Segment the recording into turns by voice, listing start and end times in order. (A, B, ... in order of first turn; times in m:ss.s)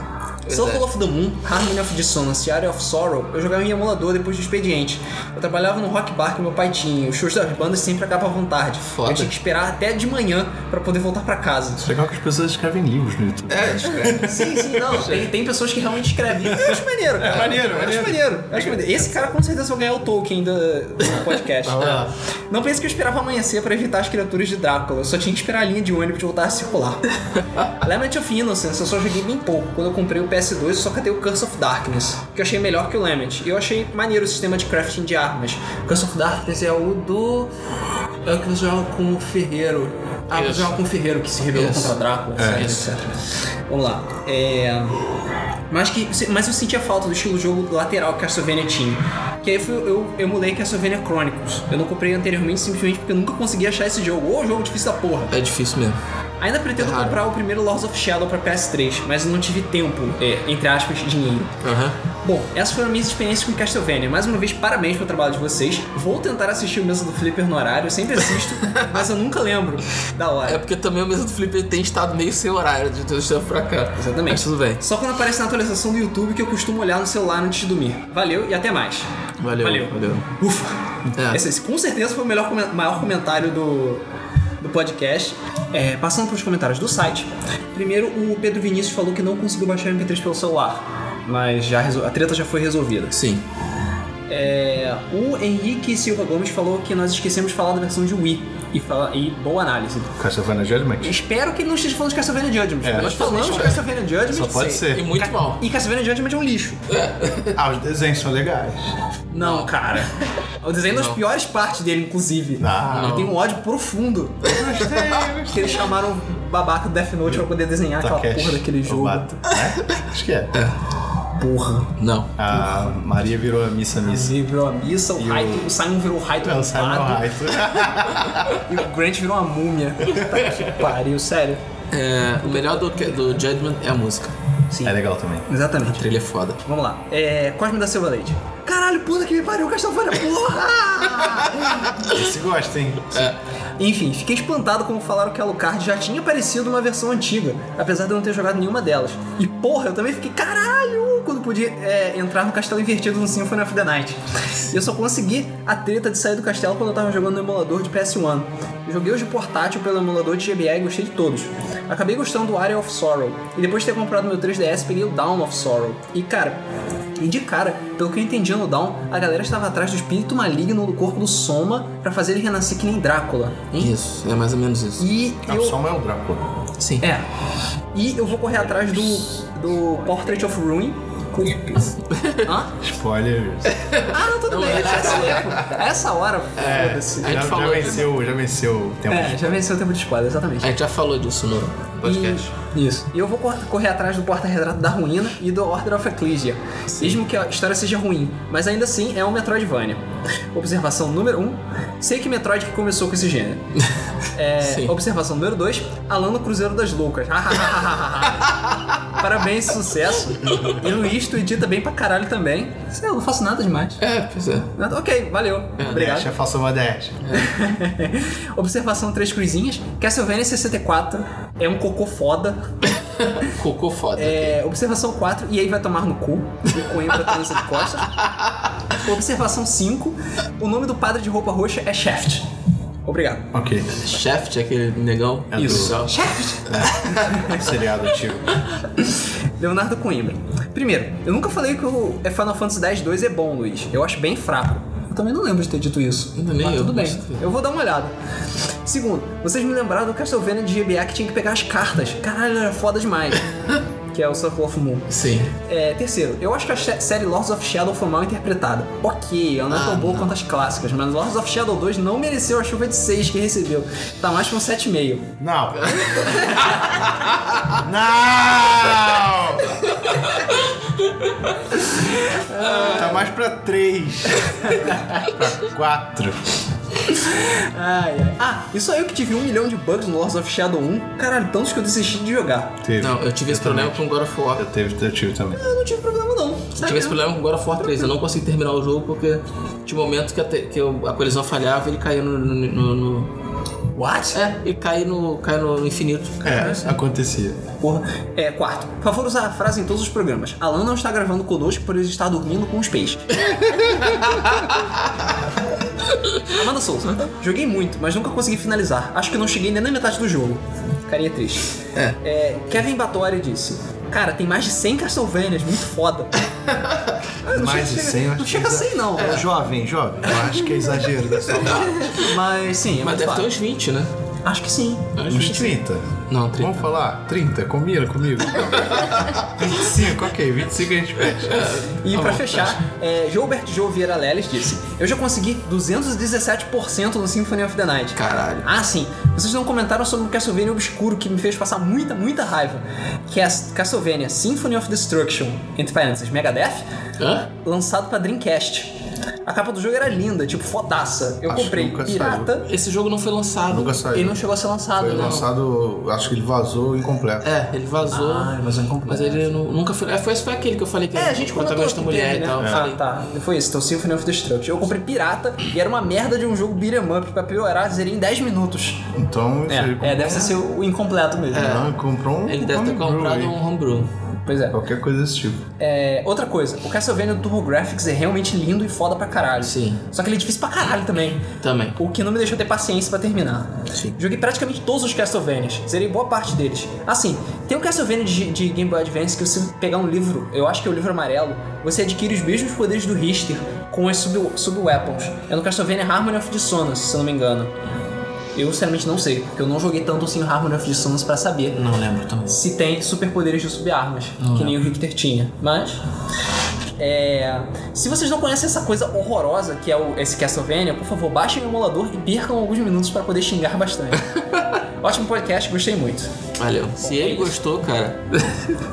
0:00.5-0:00.9 A
0:00.5-0:11.8 B
0:08.8-0:09.3 A
0:11.8-0:15.0 C
0:13.5-0:14.3 A
0:14.1-0:27.0 B
0:14.9-0:15.2 A
0:16.5-0:19.0 C
0:21.6-0:22.1 C
0:27.8-0:37.5 B
0:38.2-0:43.1 B
0:40.3-0:40.8 A
0:41.5-0:42.9 A
0:42.4-0:42.8 C
0:43.7-0:45.0 B
0:45.7-0:55.3 B
0:55.3-0:56.0 A
0:56.4-1:01.6 B
0:56.8-0:57.2 A
1:01.6-1:02.0 A
1:02.2-1:10.6 B
1:10.5-1:14.8 A
1:14.0-1:19.1 B
1:19.4-1:20.3 A
1:19.6-1:20.8 B
1:21.2-1:21.4 A
1:21.3-1:24.0 B
1:24.6-1:33.2 B
1:33.1-1:33.4 A
1:34.3-1:40.1 B
1:40.2-1:41.2 C
1:41.0-1:46.8 B
1:42.8-1:45.1 C
1:43.0-1:45.6 A
1:46.9-1:47.6 A
1:47.6-1:48.9 C
1:49.3-1:49.8 A
1:49.4-1:54.9 B
1:50.9-1:51.2 A
1:52.6-1:53.3 C
1:52.9-1:53.4 A
1:54.4-1:55.9 C
1:55.5-1:59.4 B
1:58.0-2:00.6 C
2:01.4-2:01.9 B
2:02.0-2:02.3 A
2:02.4-2:04.3 C
2:04.0-2:07.2 B
2:05.2-2:05.7 C
2:06.4-2:08.6 C
2:08.6-2:11.6 B
2:11.9-2:14.3 A
2:12.5-2:13.0 B
2:14.8-2:15.5 C
2:15.5-2:16.1 B
2:15.9-2:16.6 A
2:16.6-2:22.0 B
2:22.1-2:23.3 C
2:23.1-2:23.4 A
2:23.8-2:46.6 B
2:47.2-2:53.9 B
2:53.8-2:55.1 A
2:55.0-2:55.8 B
2:55.4-2:56.5 C
2:56.8-2:57.1 A
2:57.0-2:57.3 B
2:57.9-3:02.7 B
3:02.1-3:02.4 A
3:02.8-3:03.7 C
3:03.7-3:05.6 A
3:04.1-3:07.5 B
3:06.6-3:09.6 C
3:07.2-3:08.1 A
3:09.1-3:10.7 B
3:10.6-3:12.5 A
3:12.0-3:20.0 B
3:16.9-3:17.2 A
3:20.5-3:23.6 B
3:24.4-3:28.5 B
3:24.6-3:24.9 A
3:29.2-3:34.0 B
3:34.0-3:34.7 A
3:34.8-3:36.3 B
3:35.8-3:36.1 A
3:35.8-3:37.3 C
3:37.3-3:42.8 B
3:43.2-3:44.6 A
3:44.2-3:48.2 B
3:48.9-3:52.5 B
3:53.0-3:53.5 B
3:53.5-3:54.0 C
3:54.0-3:56.2 A
3:55.5-3:56.0 C
3:55.6-3:57.7 B
3:56.7-3:58.6 C
3:59.0-4:08.1 B
4:06.4-4:07.4 A
4:08.8-4:13.4 B
4:14.1-4:15.1 B
4:15.1-4:15.5 A
4:15.6-4:25.3 B
4:19.7-4:20.3 A
4:25.4-4:25.9 C
4:25.8-4:26.8 A
4:27.8-4:30.0 C
4:30.1-4:30.4 A
4:31.8-4:33.2 B
4:32.6-4:36.6 C
4:32.8-4:33.0 A
4:34.6-4:35.2 B
4:37.1-4:42.8 B
4:42.8-4:44.0 C
4:43.0-4:44.7 A
4:44.6-4:45.6 C
4:45.5-4:47.2 B
4:46.8-4:53.3 A
4:54.0-4:54.4 B
4:54.3-4:56.9 A
4:56.4-4:57.6 C
4:57.8-5:03.3 B
5:03.7-5:04.5 A
5:06.5-5:16.4 B
5:17.4-5:19.4 B
5:17.5-5:22.0 C
5:19.2-5:19.4 A
5:21.5-5:22.2 A
5:22.0-5:23.5 B
5:23.0-5:24.1 A
5:24.4-5:25.4 B
5:25.2-5:25.8 A
5:25.3-5:31.8 C
5:26.3-5:26.9 A
5:28.8-5:29.1 A
5:31.4-5:32.8 A
5:32.0-5:46.8 B
5:38.2-5:38.7 A
5:47.2-5:47.5 A
5:47.6-5:52.7 B
5:51.5-5:52.5 C
5:52.6-5:54.0 A
5:53.7-5:54.4 C
5:54.1-5:55.4 B
5:55.0-5:57.5 C
5:55.0-5:55.5 A
5:57.4-5:58.5 A
5:58.1-5:59.5 B
5:59.1-6:03.0 A
6:01.2-6:09.1 B
6:02.6-6:02.9 C
6:09.1-6:10.6 C
6:09.7-6:11.8 B
6:11.5-6:11.9 A
6:11.5-6:13.6 C
6:12.5-6:14.1 A
6:14.5-6:14.8 B
6:14.7-6:15.6 C
6:15.8-6:37.7 B
6:19.6-6:20.0 A
6:21.6-6:22.0 A
6:38.6-6:41.8 B
6:41.8-6:42.6 A
6:42.5-6:46.0 B
6:44.4-6:44.8 A
6:47.0-6:54.2 B
6:55.0-6:56.3 B
6:56.6-6:58.7 A
6:57.0-6:57.6 B